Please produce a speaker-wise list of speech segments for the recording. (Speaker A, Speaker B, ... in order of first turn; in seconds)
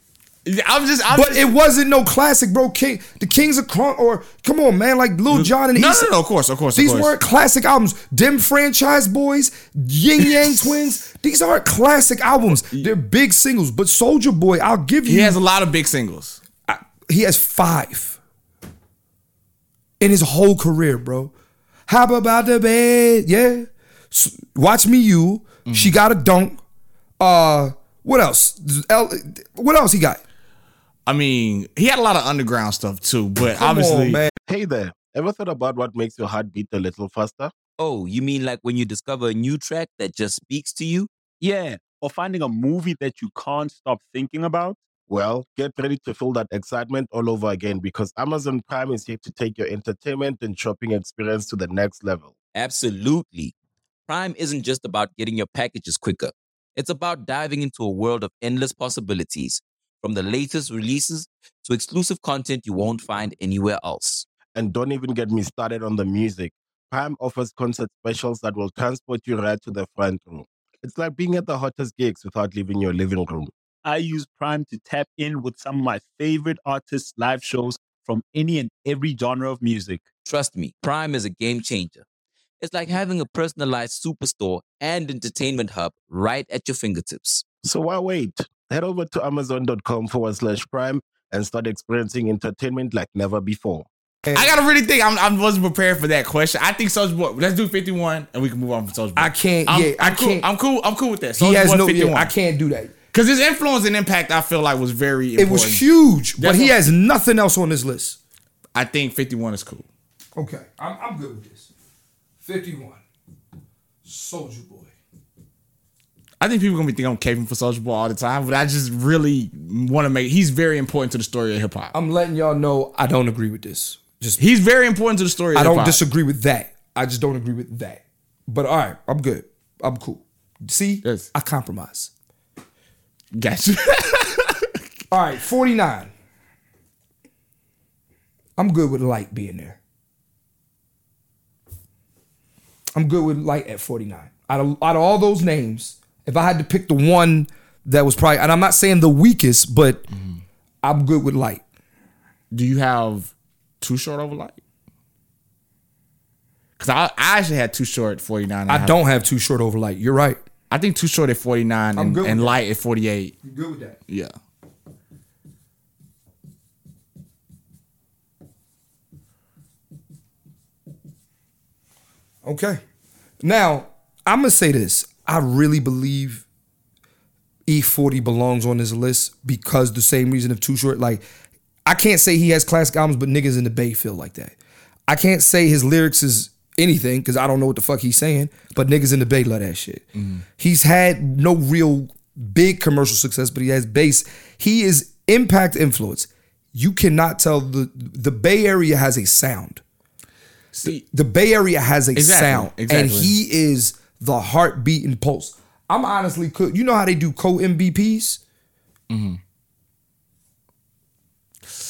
Speaker A: 0.5-1.5, 5.3-7.1, 15.1-16.4, 25.6-25.9, 31.1-34.2, 94.3-102.3, 103.1-105.9, 106.4-106.9, 108.7-109.8, 116.4-121.9, 124.4-126.0, 131.0-131.3, 133.3-134.8, 150.1-150.4, 152.5-154.6, 156.8-159.0, 160.7-163.3, 164.1-164.3, 190.2-190.4, 200.7-201.0, 202.1-203.3, 209.1-209.4
Speaker B: 1.1-6.1, 6.7-15.4, 16.7-18.2, 20.0-21.3, 21.9-26.6, 27.2-30.2, 33.5-34.3, 94.2-94.5, 99.2-100.5, 101.3-102.9, 105.4-108.2, 110.3-111.7, 112.4-113.0, 114.0-114.9, 121.9-124.4, 125.5-132.1, 135.1-136.1, 138.6-139.8, 142.9-150.1, 150.8-151.6, 158.7-160.4, 161.9-162.6, 163.4-164.0, 172.4-172.8, 173.4-176.4, 177.7-181.2, 181.8-184.5, 185.1-199.8, 200.8-208.4
Speaker C: 34.5-37.5, 45.1-52.3, 64.5-73.5, 87.6-93.9
Speaker D: 37.8-41.1, 52.5-53.5, 54.1-64.3, 80.2-82.0, 82.6-87.4
Speaker E: 41.4-44.8, 73.8-80.0